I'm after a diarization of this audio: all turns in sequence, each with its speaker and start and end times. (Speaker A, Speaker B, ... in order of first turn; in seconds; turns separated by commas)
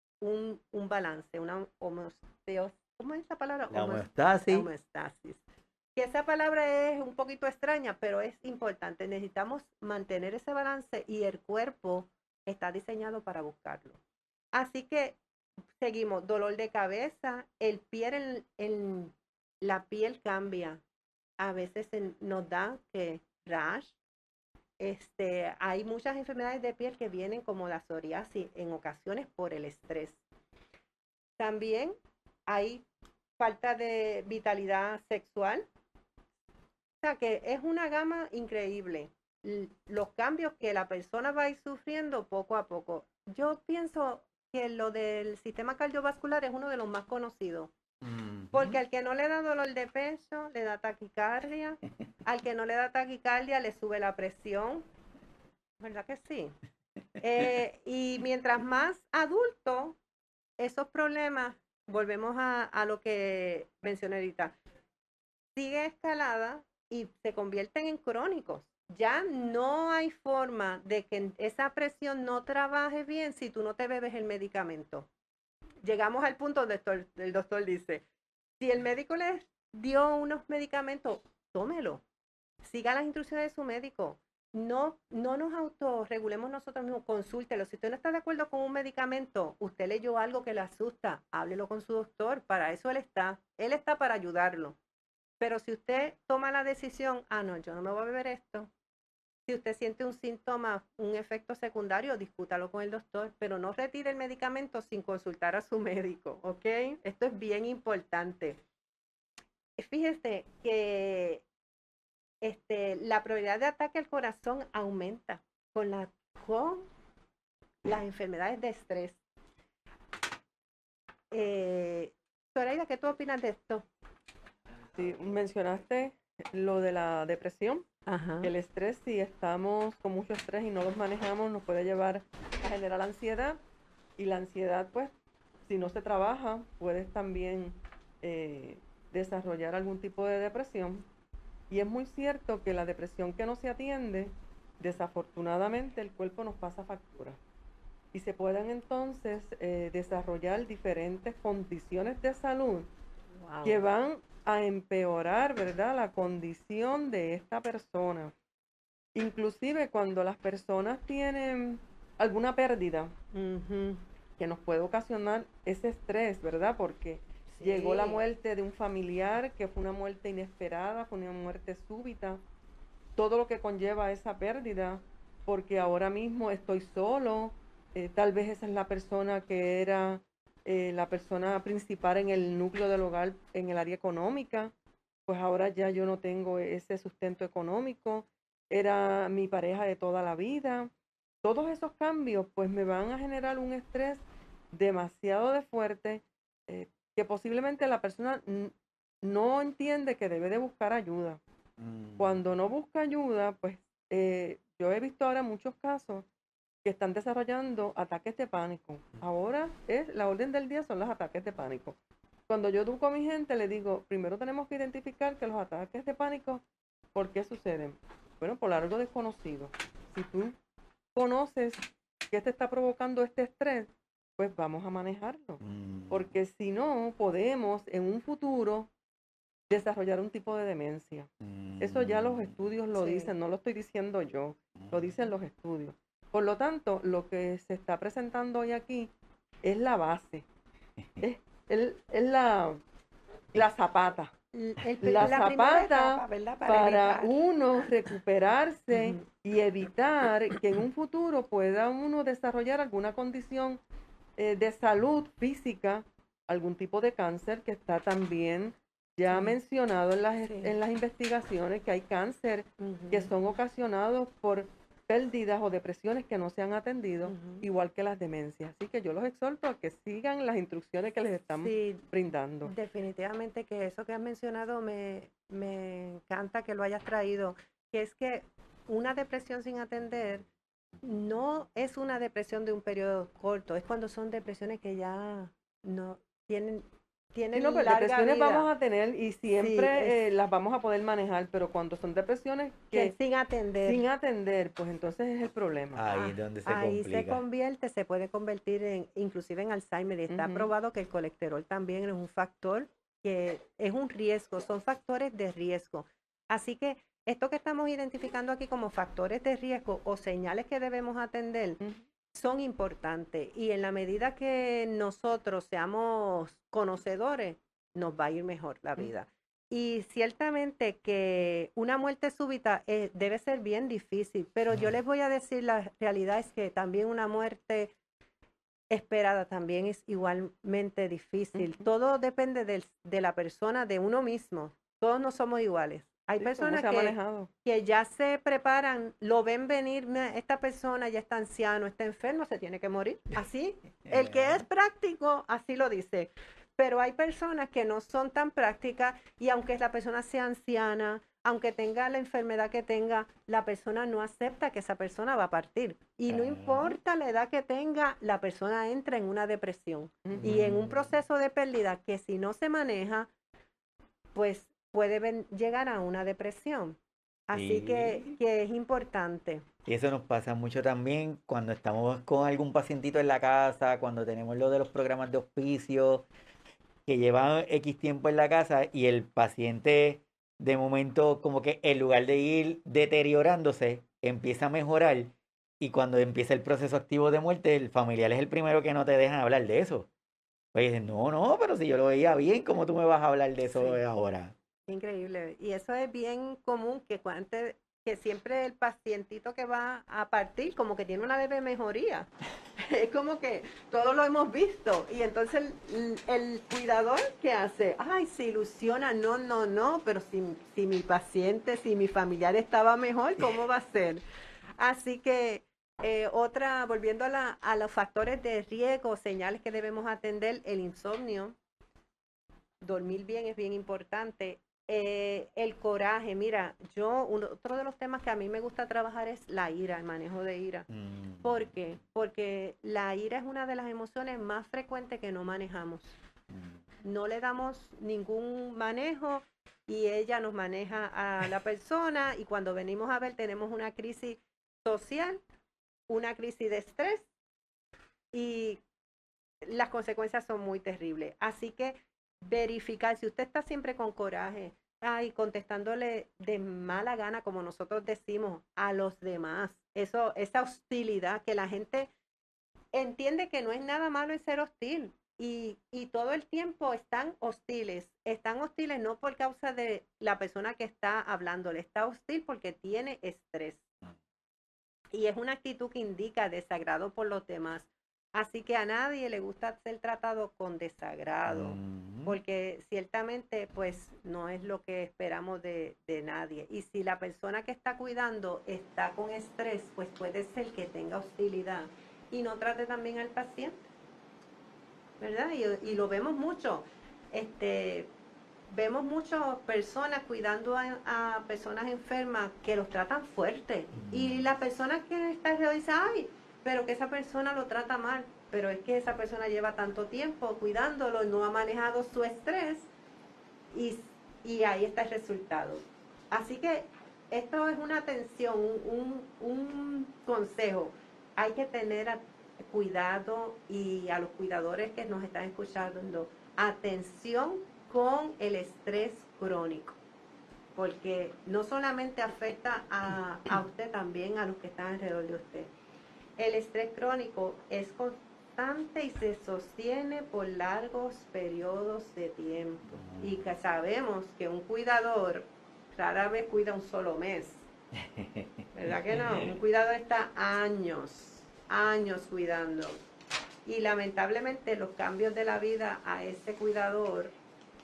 Speaker A: 0.2-5.4, Speaker B: 3.7-4.7, Speaker A: 6.0-14.0, Speaker A: 14.5-15.2, Speaker A: 15.8-20.8, Speaker A: 21.4-23.9, Speaker A: 24.8-30.2, Speaker A: 31.4-32.8, Speaker A: 33.4-35.7, Speaker A: 37.0-47.7, Speaker B: 48.0-48.8, Speaker A: 48.5-54.8, Speaker A: 55.8-56.5, Speaker A: 57.2-60.0, Speaker A: 60.6-64.5, Speaker A: 65.5-75.1, Speaker A: 75.8-78.0, Speaker A: 78.6-82.0, Speaker A: 82.6-94.8, Speaker A: 95.4-98.7, Speaker A: 99.5-108.6, Speaker A: 109.8-111.4, Speaker A: 112.4-116.9, Speaker A: 117.8-119.2, Speaker A: 121.3-123.9, Speaker C: 124.9-127.8, Speaker A: 128.1-128.5, Speaker C: 128.4-133.6, Speaker C: 134.2-135.1, Speaker C: 135.7-141.1, Speaker C: 141.7-147.4, Speaker C: 148.1-152.9, Speaker A: 153.4-153.8, Speaker C: 153.6-158.3, Speaker C: 159.1-163.1, Speaker A: 163.3-164.0, Speaker C: 164.4-172.4, Speaker A: 167.5-168.2, Speaker C: 173.2-184.7, Speaker C: 185.3-190.9, Speaker C: 191.4-194.2, Speaker C: 194.7-201.4, Speaker B: 201.8-202.4, Speaker C: 202.2-206.2, Speaker C: 206.8-212.0, Speaker C: 212.5-216.6, Speaker C: 217.1-220.6, Speaker C: 221.1-228.9, Speaker B: 225.6-226.3, Speaker C: 229.7-239.1, Speaker B: 231.4-232.6, Speaker A: 232.9-233.3, Speaker B: 234.8-235.1, Speaker C: 239.6-240.4, Speaker C: 241.2-242.8, Speaker C: 243.5-244.3, Speaker A: 244.5-247.4, Speaker C: 245.0-253.8, Speaker A: 248.9-249.2, Speaker C: 254.4-272.7, Speaker A: 259.3-259.6, Speaker A: 260.5-260.7, Speaker A: 262.8-263.3, Speaker A: 267.2-267.6, Speaker A: 271.6-272.1, Speaker A: 272.6-280.5, Speaker A: 281.0-288.7, Speaker C: 287.5-293.1, Speaker A: 289.6-290.2, Speaker A: 292.9-294.0, Speaker C: 293.8-296.0, Speaker B: 295.9-297.4, Speaker A: 296.1-311.8, Speaker C: 300.3-300.7, Speaker A: 312.3-327.9, Speaker A: 328.9-363.3, Speaker C: 336.4-337.5, Speaker B: 344.1-344.6, Speaker B: 356.3-356.9, Speaker B: 360.4-361.1, Speaker A: 364.3-369.6, Speaker B: 367.5-368.4, Speaker B: 369.8-376.2, Speaker B: 377.1-390.1, Speaker B: 390.7-394.5, Speaker A: 394.9-414.2, Speaker A: 414.8-421.6, Speaker A: 422.8-430.9, Speaker B: 430.9-431.7, Speaker A: 431.4-436.1, Speaker A: 437.0-445.4, Speaker A: 446.1-447.3, Speaker A: 448.3-448.8, Speaker A: 449.6-462.1, Speaker A: 462.9-473.8, Speaker A: 475.1-493.8, Speaker B: 481.5-482.4, Speaker A: 495.2-498.1, Speaker A: 498.7-512.9, Speaker B: 503.9-504.4, Speaker A: 513.7-530.0, Speaker A: 530.7-535.7, Speaker A: 536.4-547.6, Speaker B: 542.9-543.4, Speaker B: 548.1-548.5, Speaker A: 548.7-553.0, Speaker B: 549.1-549.5, Speaker A: 553.6-557.3